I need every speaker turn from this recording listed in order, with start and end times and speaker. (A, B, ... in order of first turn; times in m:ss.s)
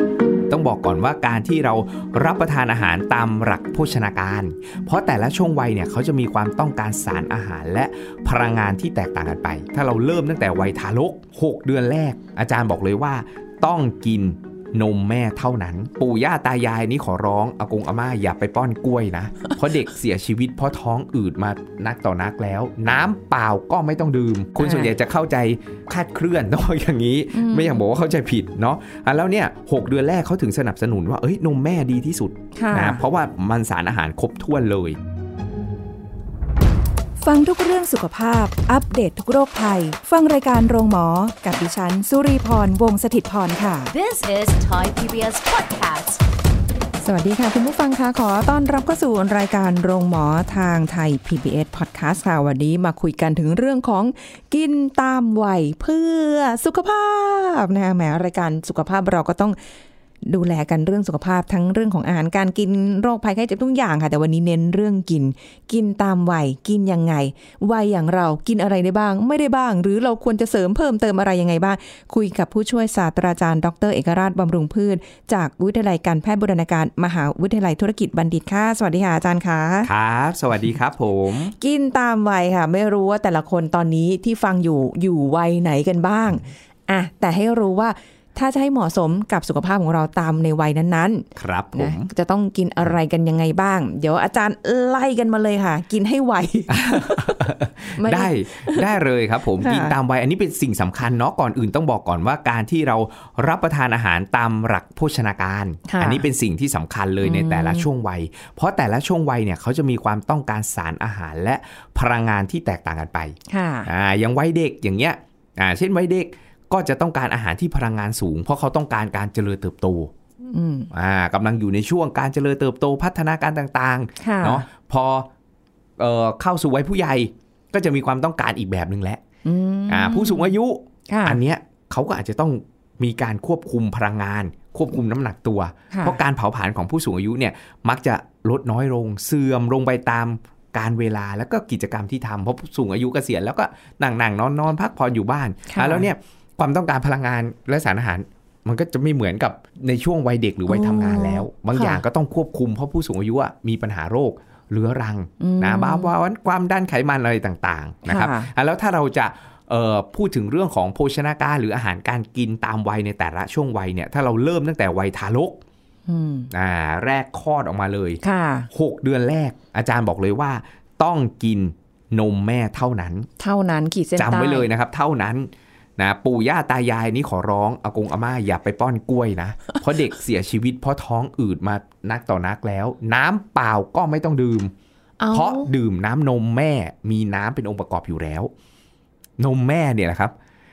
0:00.5-0:35.0 A
0:24.6-0:24.9 B
0:27.3-0:27.8 B
0:32.6-0:33.0 B
0:37.2-0:43.9 B
0:43.9-0:46.2 C
0:47.0-0:59.6 B
1:00.2-1:19.9 B
1:19.8-1:21.5 A
1:21.6-1:38.9 B
1:31.4-1:32.1 A
1:36.7-2:00.1 A
1:39.6-1:39.9 B
1:45.9-1:46.3 B
1:47.2-1:47.9 B
1:53.5-1:53.9 B
2:00.5-2:00.9 B
2:00.9-2:05.3 A
2:04.2-2:04.6 B
2:06.0-2:09.2 A
2:09.4-2:10.5 B
2:09.9-2:45.6 A
2:11.1-2:11.4 B
2:15.9-2:16.2 B
2:25.7-2:26.1 B
2:30.7-2:32.0 B
2:35.4-2:36.1 B
2:38.0-2:38.5 B
2:46.1-2:46.5 B
2:46.5-2:48.2 A
2:48.2-2:48.7 B
2:48.7-2:53.3 A
2:53.4-2:54.7 B
2:54.2-3:04.7 A
3:05.2-3:05.7 B
3:05.3-3:08.5 A
3:09.4-3:10.3 A